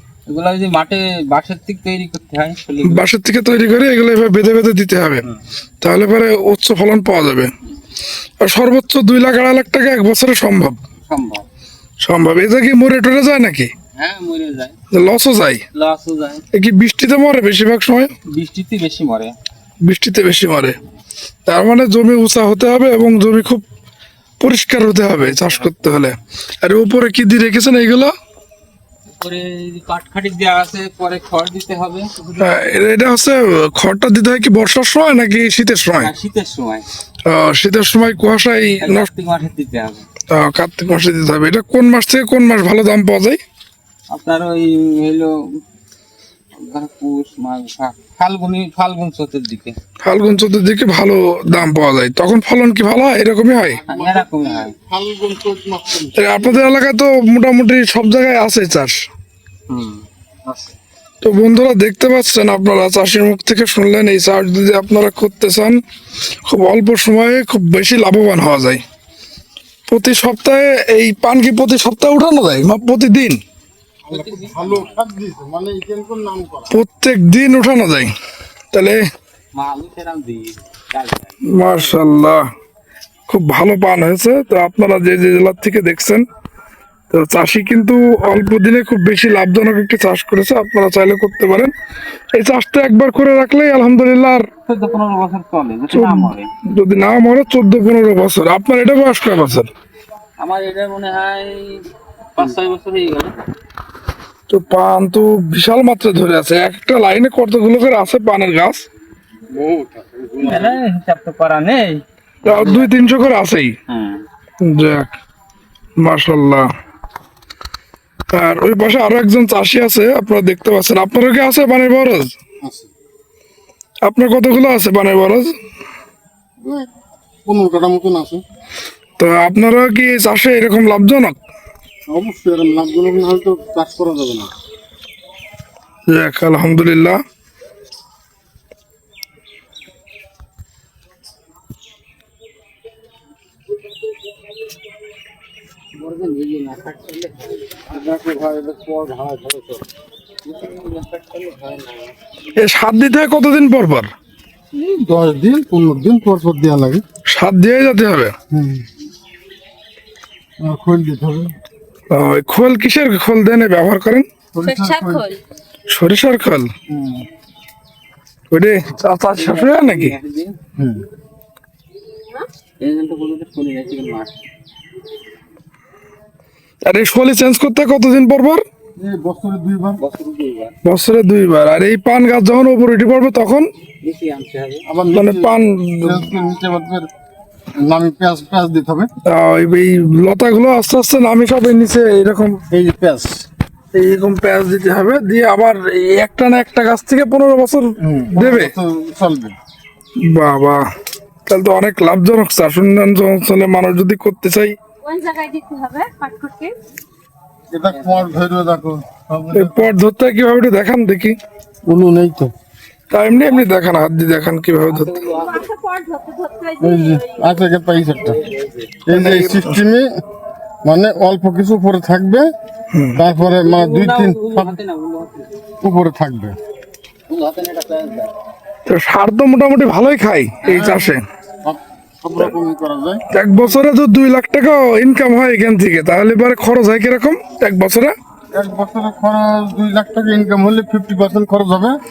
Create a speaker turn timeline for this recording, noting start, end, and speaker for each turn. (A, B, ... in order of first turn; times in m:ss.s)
0:00.3-0:03.1 A
0:02.8-0:05.3 B
0:05.8-0:07.5 B
0:08.4-0:10.8 B
0:11.0-0:11.4 A
0:12.0-0:13.7 B
0:14.0-0:14.8 A
0:14.9-0:15.6 B
0:15.8-0:16.4 A
0:16.5-0:18.1 B
0:18.3-0:19.3 A
0:19.8-0:20.8 B
0:21.5-0:23.6 B
0:24.4-0:28.1 B
0:29.1-0:32.5 A
0:32.4-0:36.1 B
0:36.0-0:36.9 A
0:37.2-0:39.1 B
0:38.8-0:40.0 A
0:40.3-0:43.4 B
0:44.1-0:45.3 A
0:46.6-0:49.8 A
0:50.0-0:53.8 B
0:53.8-0:54.7 A
0:53.9-0:56.6 C
0:56.2-0:58.9 B
0:59.7-1:00.8 A
1:01.2-1:05.8 B
1:06.4-1:08.8 B
1:09.9-1:13.4 B
1:14.1-1:15.0 A
1:14.1-1:16.7 C
1:16.7-1:18.1 B
1:18.7-1:19.0 B
1:19.6-1:21.9 A
1:21.5-1:22.4 B
1:23.3-1:26.2 B
1:27.1-1:31.7 B
1:32.3-1:34.4 B
1:34.7-1:36.5 A
1:35.9-1:39.7 B
1:40.4-1:41.8 A
1:42.4-1:43.4 A
1:44.5-1:48.8 B
1:49.5-1:50.8 C
1:50.4-1:52.9 A
1:52.4-1:53.8 B
1:53.9-1:54.2 A
1:54.6-1:55.1 B
1:56.0-1:56.7 B
1:58.3-2:02.3 B
2:02.6-2:02.9 C
2:04.0-2:05.6 B
2:06.6-2:06.9 C
2:07.4-2:08.4 C
2:09.2-2:11.4 B
2:12.1-2:14.5 C
2:16.1-2:17.2 B
2:26.0-2:27.9 A
2:27.9-2:29.8 C
2:30.4-2:32.1 A
2:32.6-2:34.1 B
2:34.7-2:37.0 C
2:37.3-2:38.3 B
2:38.5-2:38.8 C
2:40.6-2:41.6 C
2:42.1-2:44.2 B
2:44.5-2:45.3 C
2:44.6-2:45.4 D
2:45.9-2:46.7 B
2:46.9-2:47.2 C
2:48.5-2:50.2 B
2:49.3-2:50.6 A
2:50.8-2:51.0 C
2:52.8-2:54.4 A
2:56.8-2:58.6 B
2:59.0-3:00.0 C
3:00.0-3:00.7 A
3:00.8-3:03.7 B
3:04.0-3:04.9 A
3:04.9-3:07.1 C
3:05.1-3:06.2 B
3:07.8-3:09.1 C
3:09.2-3:12.6 B
3:12.7-3:13.4 C
3:13.9-3:18.7 B
3:18.0-3:19.6 C
3:20.2-3:20.8 B
3:21.5-3:24.8 B
3:25.0-3:26.7 D
3:27.7-3:29.9 C
3:27.9-3:28.4 A
3:29.5-3:31.4 B
3:31.8-3:32.5 C
3:33.1-3:35.2 B
3:34.9-3:35.7 A
3:35.6-3:37.4 D
3:36.8-3:38.4 C
3:39.1-3:40.1 C
3:39.1-3:39.8 B
3:40.8-3:42.5 C
3:42.9-3:43.2 B
3:43.1-3:44.8 C
3:43.4-3:45.5 A
3:45.8-3:46.6 C
3:47.3-3:48.3 A
3:48.9-3:51.2 B
3:50.7-3:51.1 A
3:51.6-3:53.2 C
3:53.3-3:58.1 B
3:58.5-4:02.0 C